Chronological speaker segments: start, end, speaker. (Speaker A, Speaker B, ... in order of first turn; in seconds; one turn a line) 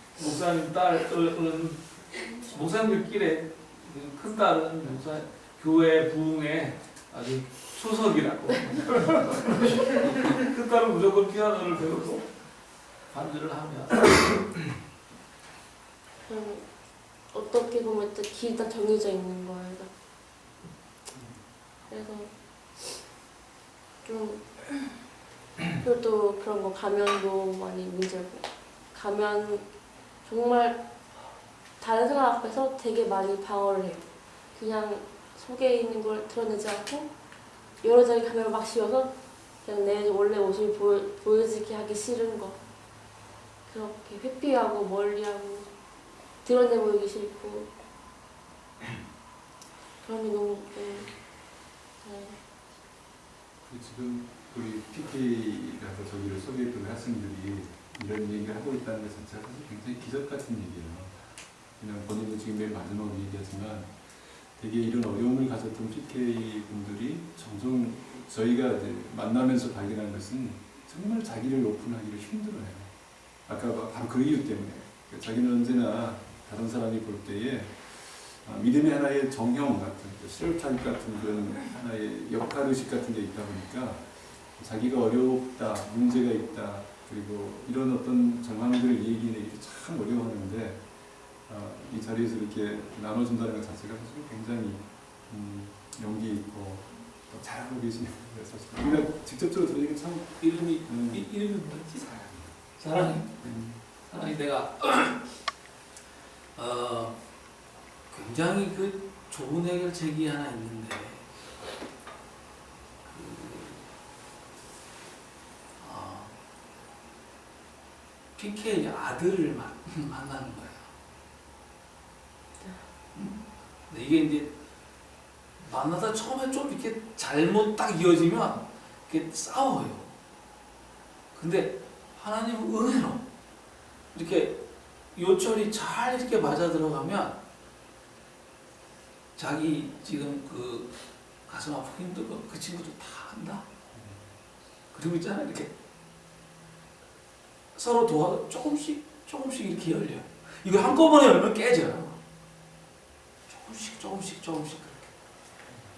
Speaker A: 0.2-12.3
Speaker A: 13.1-14.5
Speaker B: 16.2-16.6
Speaker B: 17.3-19.9
Speaker B: 21.9-22.3
Speaker B: 24.0-24.6
Speaker B: 25.7-29.6
Speaker B: 30.2-30.8
Speaker B: 31.8-37.1
Speaker B: 37.8-39.1
Speaker B: 39.6-42.6
Speaker B: 43.7-45.7
Speaker B: 46.4-47.7
Speaker B: 50.0-51.1
Speaker B: 52.0-52.4
Speaker C: 53.6-72.9
Speaker C: 73.5-101.3
Speaker A: 100.4-102.0
Speaker C: 102.1-102.5
Speaker A: 102.8-103.3
Speaker C: 103.3-103.8
Speaker A: 104.1-105.2
Speaker A: 106.5-107.2
Speaker A: 108.1-111.2
Speaker A: 113.0-113.9
Speaker A: 115.8-116.3
Speaker A: 118.3-120.9
Speaker B: 122.6-122.8
Speaker A: 123.1-124.5
Speaker A: 125.6-130.1
Speaker A: 131.3-133.2
Speaker A: 134.1-134.6
Speaker A: 135.1-137.4
Speaker A: 139.3-140.9
Speaker A: 141.5-143.6
Speaker C: 143.9-144.3
Speaker A: 144.9-145.7
Speaker A: 147.7-152.2
Speaker A: 153.5-155.1